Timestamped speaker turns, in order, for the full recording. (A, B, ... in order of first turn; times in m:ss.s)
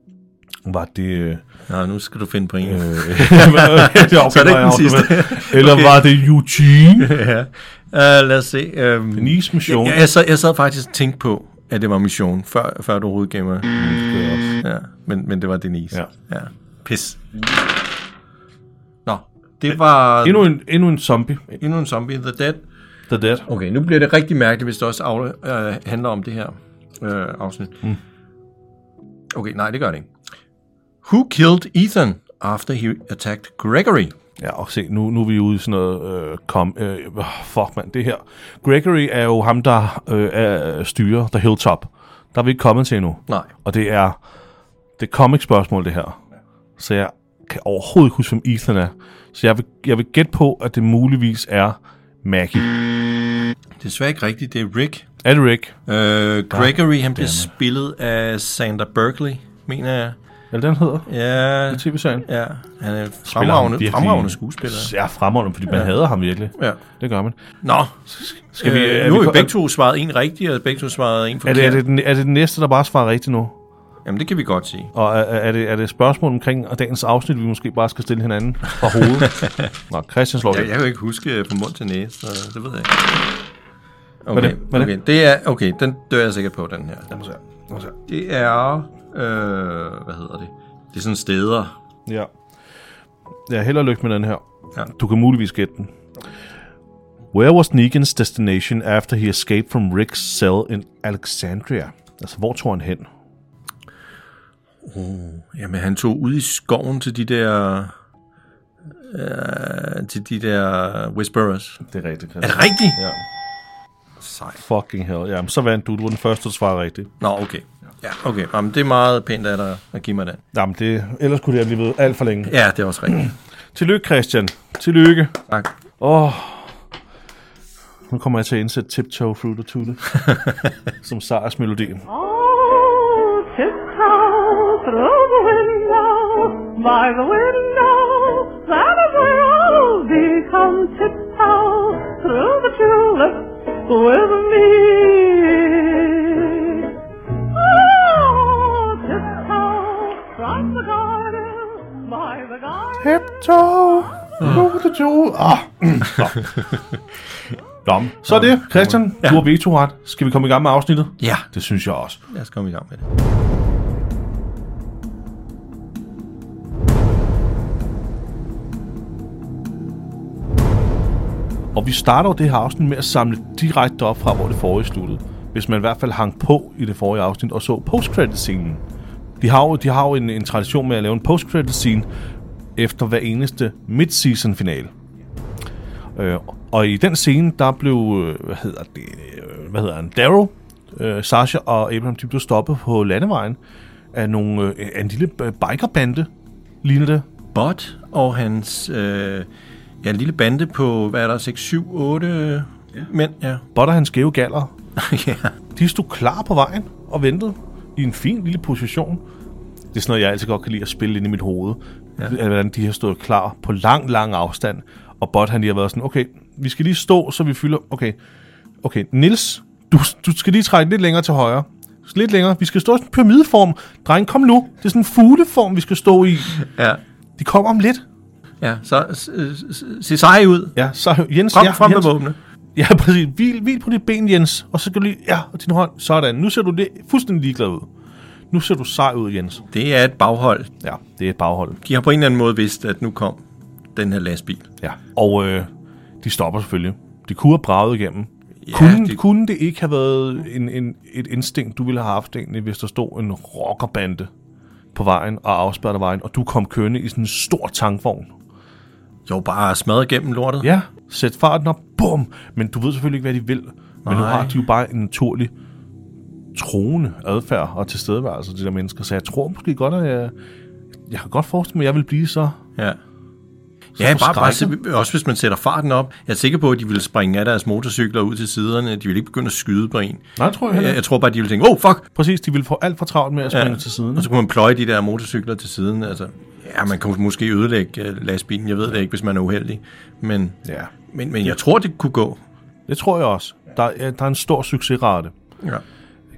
0:00.6-0:01.4 A
0:01.7-0:06.2 B
0:02.6-0:07.2 A
0:07.0-0:13.8 B
0:09.2-0:10.0 A
0:13.8-0:14.6 A
0:14.6-0:17.2 B
0:19.1-0:20.5 B
0:20.2-0:21.6 A
0:21.6-0:22.6 B
0:23.1-0:23.5 A
0:23.5-0:27.8 B
0:29.3-0:30.1 B
0:31.0-0:34.1 B
0:34.4-0:44.2 A
0:45.0-0:46.2 A
0:46.8-0:52.9 A
0:53.8-0:55.1 B
0:55.2-0:55.8 A
0:55.9-1:00.2 B
0:56.5-0:57.5 A
1:00.5-1:01.1 A
1:01.1-1:04.9 B
1:01.7-1:02.3 A
1:03.2-1:07.4 A
1:07.6-1:08.0 B
1:08.1-1:09.5 A
1:08.6-1:11.8 B
1:11.4-1:13.6 A
1:14.1-1:14.9 B
1:14.9-1:20.7 A
1:19.2-1:19.6 B
1:20.5-1:23.2 B
1:24.2-1:27.1 B
1:24.3-1:24.9 A
1:27.1-1:27.9 A
1:28.1-1:31.7 B
1:33.5-1:35.9 A
1:37.3-1:43.1 A
1:44.8-1:47.9 B
1:49.0-1:51.8 B
1:51.8-1:53.2 A
1:52.4-1:53.0 B
1:54.2-1:54.6 B
1:54.6-1:57.1 A
1:57.2-2:00.4 B
2:00.5-2:02.5 A
2:02.5-2:03.3 B
2:03.1-2:05.4 A
2:06.0-2:06.7 A
2:08.1-2:10.3 A
2:10.2-2:10.6 B
2:11.0-2:12.0 A
2:12.1-2:26.9 C
2:27.5-2:33.0 C
2:33.0-2:36.6 A
2:34.4-2:34.6 B
2:37.8-2:42.2 A
2:38.3-2:39.5 B
2:41.2-2:41.5 B
2:42.3-2:43.0 B
2:51.7-2:58.8 A
2:59.4-3:02.1 A
3:02.8-3:04.9 A
3:06.2-3:13.6 A
3:14.1-3:16.3 A
3:16.8-3:17.3 A
3:17.5-3:19.5 B
3:20.0-3:23.6 B
3:23.8-3:24.7 A
3:25.0-3:25.5 B
3:25.8-3:29.2 A
3:29.9-3:38.2 A
3:38.8-3:46.6 A
3:46.6-3:47.0 B
3:47.4-3:48.0 A
3:48.6-3:50.8 B
3:50.8-3:52.2 A
3:51.5-3:52.4 B
3:52.8-3:57.9 A
3:58.5-3:59.6 A
3:59.7-4:00.7 B
4:00.8-4:01.8 A
4:01.8-4:03.4 B
4:04.0-4:04.7 B
4:04.8-4:05.7 A
4:06.2-4:14.3 A
4:08.6-4:09.2 B
4:14.9-4:18.3 A
4:19.3-4:20.7 B
4:20.6-4:25.5 A
4:24.0-4:24.6 B
4:26.6-4:30.3 A
4:31.1-4:32.6 A
4:34.0-4:34.8 A
4:34.0-4:42.1 B
4:40.4-4:41.0 A
4:42.2-4:44.3 A
4:43.5-4:50.6 B
4:50.6-4:50.9 A
4:51.1-4:52.4 B
4:52.9-4:55.3 A